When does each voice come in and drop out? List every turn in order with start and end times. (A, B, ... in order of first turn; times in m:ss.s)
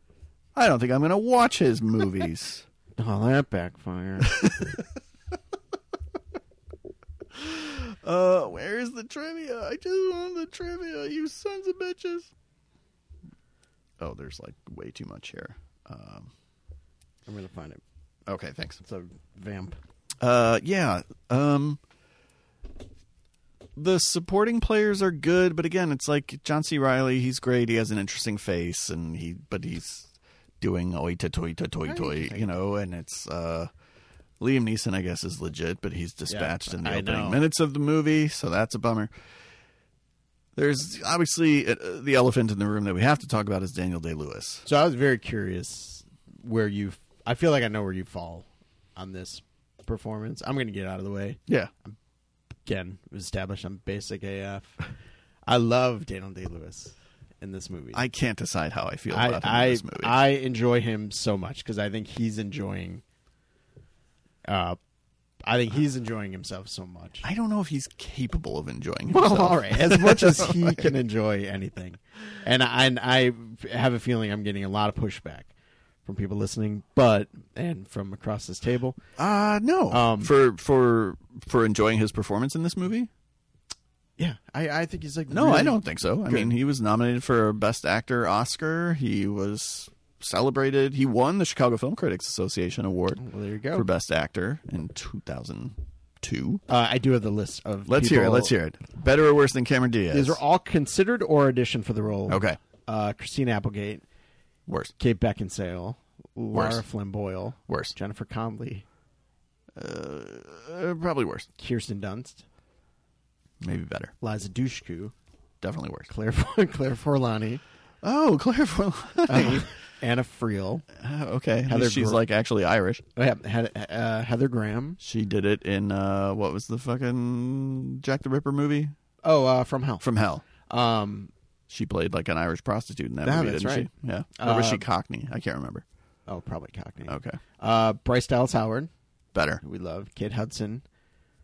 0:00.5-0:02.6 A
0:03.0-0:04.8 B
0:04.3-0:04.8 A
0:07.3-0:12.3 A
0:14.0-0:16.3 A
0:17.2-0:17.8 B
0:18.3-0:18.8 A
0:18.8-0:19.8 B
0:20.2-0:21.8 A
0:23.8-0:33.7 A
0:31.8-0:32.5 B
0:34.4-0:39.1 A
0:36.3-0:37.4 B
0:40.5-0:44.6 A
0:44.6-0:52.0 B
0:52.6-0:54.9 B
0:55.5-0:58.0 B
0:57.9-1:00.2 A
0:59.1-1:03.0 B
1:04.5-1:04.8 B
1:05.4-1:07.2 B
1:07.2-1:10.9 A
1:09.1-1:15.5 B
1:16.0-1:19.0 B
1:19.2-1:23.1 A
1:19.9-1:20.3 B
1:24.2-1:26.5 B
1:25.3-1:33.2 A
1:33.2-1:33.9 B
1:33.7-1:36.6 A
1:36.7-1:38.5 B
1:37.9-1:40.4 A
1:40.1-1:44.0 B
1:42.3-1:42.6 A
1:44.7-1:44.9 A
1:45.0-1:48.8 B
1:46.5-1:46.8 A
1:47.7-1:47.9 A
1:49.8-1:51.5 A
1:51.6-1:52.4 B
1:53.6-1:54.1 A
1:54.2-1:55.1 B
1:55.6-1:56.1 A
1:56.1-1:57.6 B
1:58.0-1:59.7 A
1:59.3-2:00.9 B
2:00.9-2:03.0 A
2:01.7-2:02.2 B
2:03.2-2:05.0 B
2:05.0-2:08.9 A
2:09.2-2:10.0 B
2:10.0-2:10.4 A
2:10.7-2:11.3 B
2:11.7-2:15.8 A
2:13.2-2:14.8 B
2:16.3-2:18.9 B
2:17.1-2:17.4 A
2:19.3-2:19.6 A
2:19.6-2:20.8 B